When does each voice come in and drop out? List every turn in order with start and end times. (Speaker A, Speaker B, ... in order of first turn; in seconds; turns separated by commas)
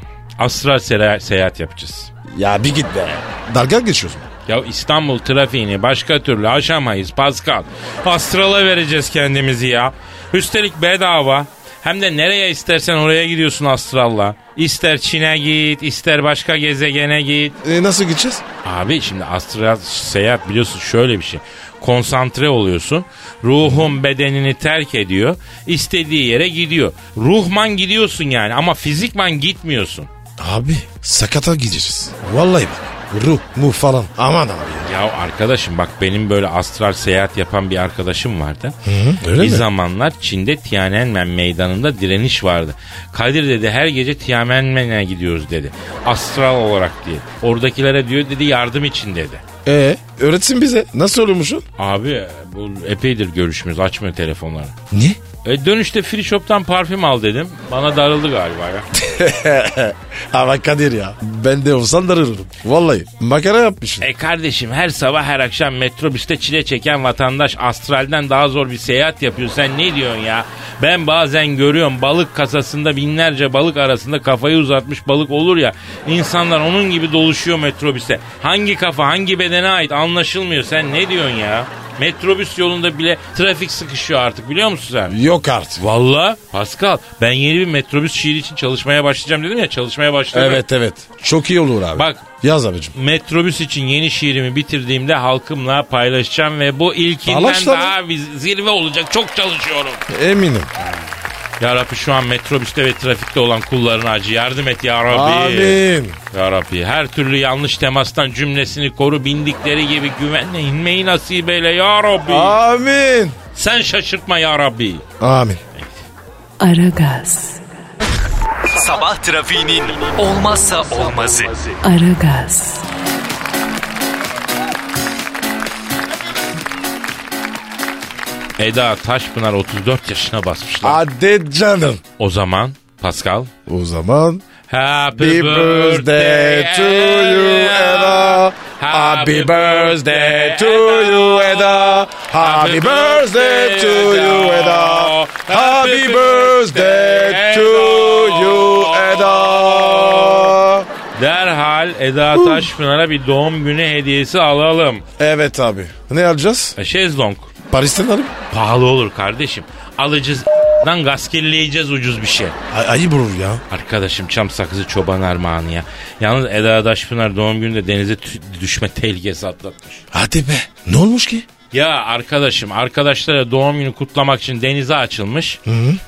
Speaker A: 0.4-2.1, Speaker B: 2.3-4.3, Speaker A: 4.5-17.6, Speaker B: 17.6-18.4, Speaker A: 18.6-30.1, Speaker B: 23.6-24.0, Speaker B: 30.4-34.9, Speaker A: 34.9-38.8, Speaker B: 38.9-39.7, Speaker A: 39.4-49.4, Speaker B: 49.6-51.6, Speaker A: 51.8-54.7, Speaker B: 54.9-55.2, Speaker A: 55.4-58.9, Speaker B: 58.9-64.1, Speaker A: 64.0-85.1, Speaker B: 85.1-85.8, Speaker A: 85.8-90.6, Speaker B: 90.3-93.0, Speaker A: 92.0-92.2, Speaker A: 93.0-100.0, Speaker B: 97.2-97.9, Speaker B: 100.1-100.7, Speaker A: 101.6-112.6, Speaker B: 105.1-106.2, Speaker B: 112.2-113.4, Speaker A: 113.5-115.0, Speaker B: 115.2-115.6, Speaker C: 116.6-117.6, Speaker D: 118.6-121.7, Speaker C: 121.8-122.8, Speaker A: 128.6-131.0, Speaker B: 130.8-132.0, Speaker A: 132.2-133.5, Speaker B: 133.7-134.4, Speaker A: 134.7-150.6, Speaker B: 135.1-150.9, Speaker A: 151.1-155.0, Speaker B: 152.3-152.7, Speaker B: 155.2-156.8, Speaker A: 156.8-157.5, Speaker B: 157.7-158.3, Speaker A: 158.5-162.6, Speaker B: 162.7-163.6, Speaker A: 163.7-170.0, Speaker B: 170.1-171.5, Speaker A: 171.7-175.6, Speaker B: 175.7-176.0